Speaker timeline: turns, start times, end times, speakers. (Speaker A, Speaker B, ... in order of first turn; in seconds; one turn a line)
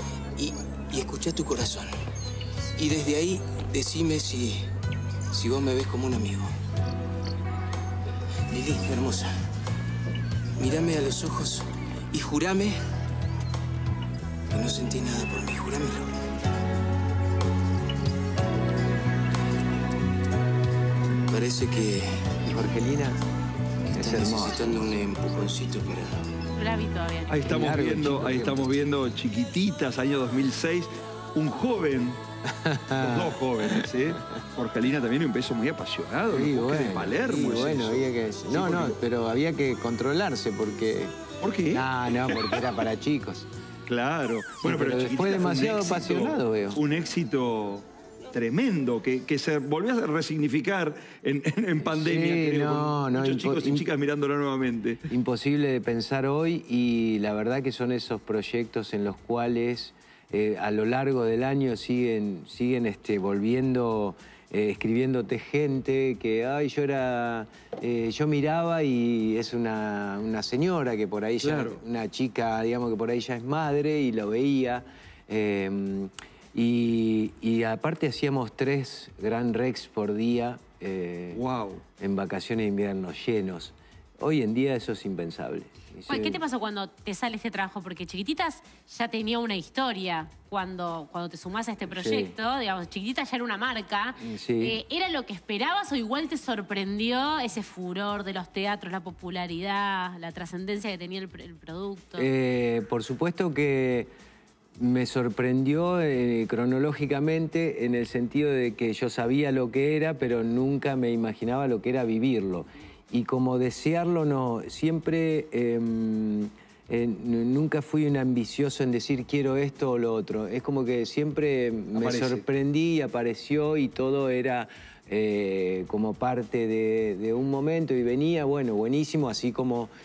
Speaker A: 0.3-2.0
Speaker A: 2.8-4.7
Speaker A: 5.3-6.6
Speaker A: 8.5-9.3
Speaker A: 10.6-12.8
Speaker A: 14.5-16.1
Speaker A: 21.3-22.2
Speaker B: 22.4-23.2
Speaker A: 23.9-26.2
Speaker B: 23.9-24.8
Speaker C: 26.6-27.5
Speaker D: 27.3-32.2
Speaker B: 27.4-28.8
Speaker B: 32.5-34.4
Speaker D: 33.0-39.0
Speaker B: 36.3-41.1
Speaker D: 41.4-42.6
Speaker B: 41.7-43.5
Speaker D: 43.9-55.1
Speaker B: 44.6-46.8
Speaker B: 51.8-53.9
Speaker B: 55.1-81.4
Speaker D: 71.4-71.8
Speaker D: 81.3-81.8
Speaker B: 82.0-86.4
Speaker C: 86.1-102.3
Speaker B: 91.9-92.3
Speaker B: 94.2-94.8
Speaker B: 102.1-104.1
Speaker B: 104.8-129.9
Speaker D: 122.0-122.4